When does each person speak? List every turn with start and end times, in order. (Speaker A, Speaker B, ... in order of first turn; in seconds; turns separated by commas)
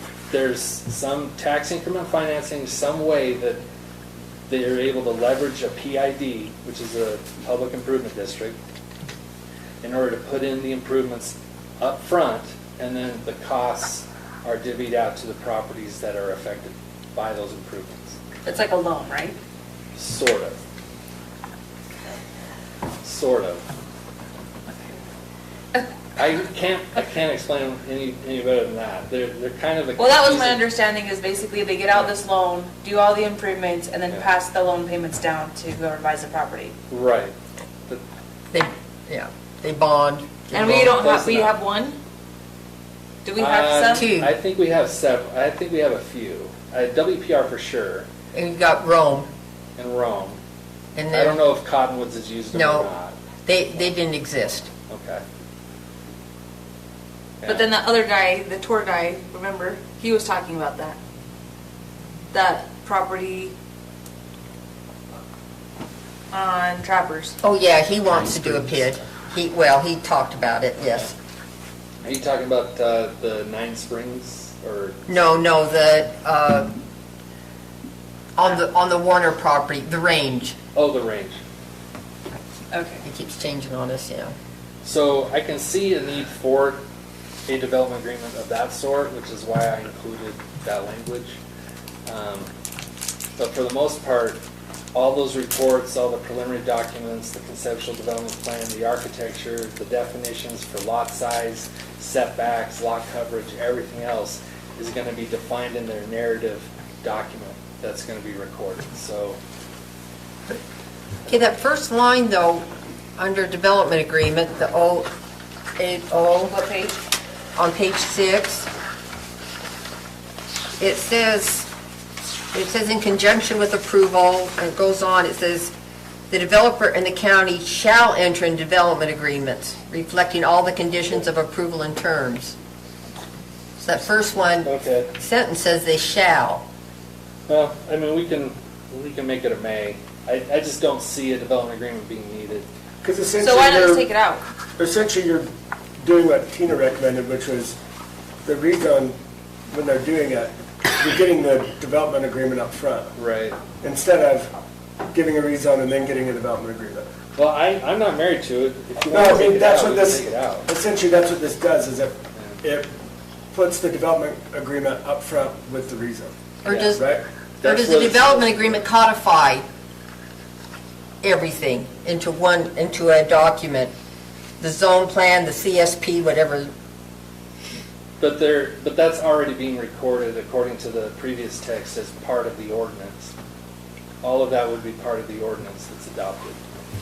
Speaker A: 0.3-3.6, Speaker A: 4.5-8.6, Speaker A: 9.8-18.2, Speaker B: 18.4-19.4, Speaker A: 19.9-20.6, Speaker A: 23.0-23.6, Speaker A: 26.2-30.6, Speaker B: 30.0-36.7, Speaker A: 36.9-37.3, Speaker C: 38.5-40.5, Speaker A: 40.5-41.5, Speaker B: 40.5-42.0, Speaker B: 43.2-44.0, Speaker A: 43.4-48.1, Speaker C: 43.9-44.3, Speaker C: 48.3-49.3, Speaker A: 49.8-50.4, Speaker C: 50.9-51.4, Speaker A: 51.1-53.2, Speaker C: 52.5-52.9, Speaker C: 53.4-54.7, Speaker A: 54.9-55.2, Speaker A: 57.4-57.7, Speaker B: 57.4-61.0, Speaker B: 62.3-63.5, Speaker B: 66.3-67.3, Speaker C: 67.4-71.1, Speaker A: 68.3-68.7, Speaker A: 72.0-75.0, Speaker C: 75.1-76.7, Speaker C: 78.3-80.6, Speaker A: 80.7-81.4, Speaker B: 82.7-83.0, Speaker C: 83.0-84.3, Speaker A: 84.8-86.8, Speaker A: 87.5-91.4, Speaker A: 92.0-92.5, Speaker A: 93.4-94.4, Speaker A: 94.9-109.4, Speaker C: 111.3-112.7, Speaker C: 113.2-115.1, Speaker C: 115.8-116.5, Speaker B: 116.5-117.0, Speaker C: 117.5-118.7, Speaker C: 120.8-121.7, Speaker C: 122.5-125.7, Speaker C: 126.3-132.5, Speaker C: 133.8-136.6, Speaker A: 134.6-135.1, Speaker A: 137.5-142.7, Speaker D: 143.0-144.1, Speaker B: 143.3-144.4, Speaker D: 144.8-145.5, Speaker D: 146.0-147.8, Speaker D: 148.4-149.2, Speaker D: 149.7-153.1, Speaker A: 153.2-153.6, Speaker D: 153.8-154.5, Speaker D: 155.1-157.1, Speaker A: 157.3-160.7, Speaker D: 159.0-162.9, Speaker A: 162.3-162.6, Speaker D: 163.5-166.3, Speaker C: 166.6-167.0, Speaker A: 166.7-167.0, Speaker D: 166.9-167.2, Speaker A: 167.6-168.8, Speaker C: 167.6-169.7, Speaker C: 171.2-173.9, Speaker C: 174.6-176.7, Speaker A: 178.2-183.3, Speaker A: 184.2-186.6